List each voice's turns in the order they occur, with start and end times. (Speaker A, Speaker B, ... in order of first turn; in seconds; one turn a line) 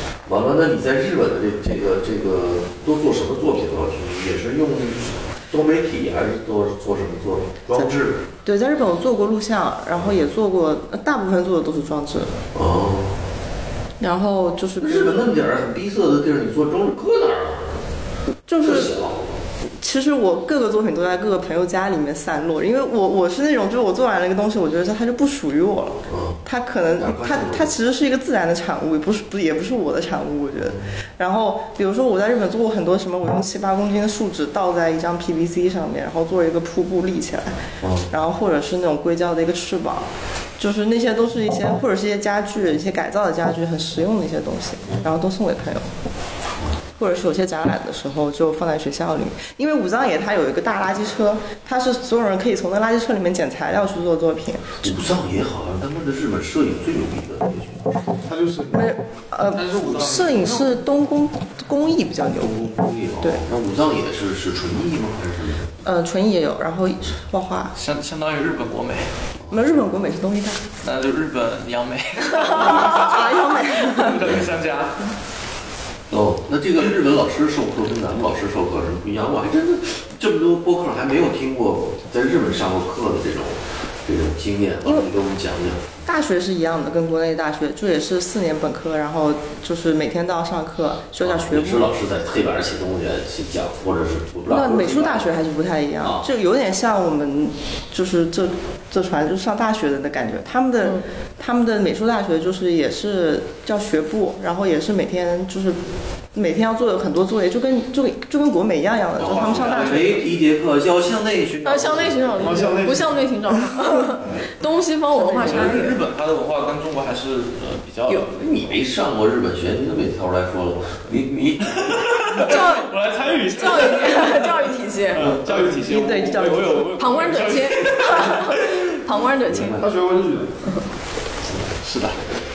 Speaker A: 0.2-8.2
Speaker B: 8.4-12.4
Speaker A: 9.9-10.2
Speaker A: 12.5-13.2
Speaker B: 14.0-15.2
Speaker A: 14.8-17.8
Speaker B: 18.5-18.9
Speaker A: 18.6-19.3
Speaker B: 19.8-40.0
Speaker A: 26.1-26.4
Speaker A: 27.0-27.7
Speaker A: 37.8-38.1
Speaker B: 40.6-45.9
Speaker B: 47.0-55.0
Speaker A: 54.8-58.0
Speaker C: 58.2-58.9
Speaker B: 58.7-62.6
Speaker D: 59.5-60.8
Speaker A: 62.4-65.7
Speaker B: 65.8-67.7
Speaker D: 67.7-69.2
Speaker A: 69.4-69.8
Speaker B: 69.5-70.6
Speaker D: 70.8-75.1
Speaker B: 72.5-74.2
Speaker A: 76.1-86.0
Speaker B: 86.0-91.9
Speaker A: 91.2-95.3
Speaker B: 94.5-105.8
Speaker B: 106.3-110.2
Speaker D: 109.2-110.3
Speaker A: 109.2-112.6
Speaker E: 111.6-116.0
Speaker C: 112.4-113.1
Speaker D: 115.2-118.3
Speaker A: 115.4-115.7
Speaker A: 118.3-122.5
Speaker D: 121.8-128.9
Speaker E: 122.4-122.9
Speaker E: 123.5-125.3
Speaker A: 125.2-125.4
Speaker B: 125.5-127.0
Speaker E: 127.0-129.8
Speaker A: 129.4-129.9
Speaker C: 129.8-130.5
Speaker D: 131.8-132.2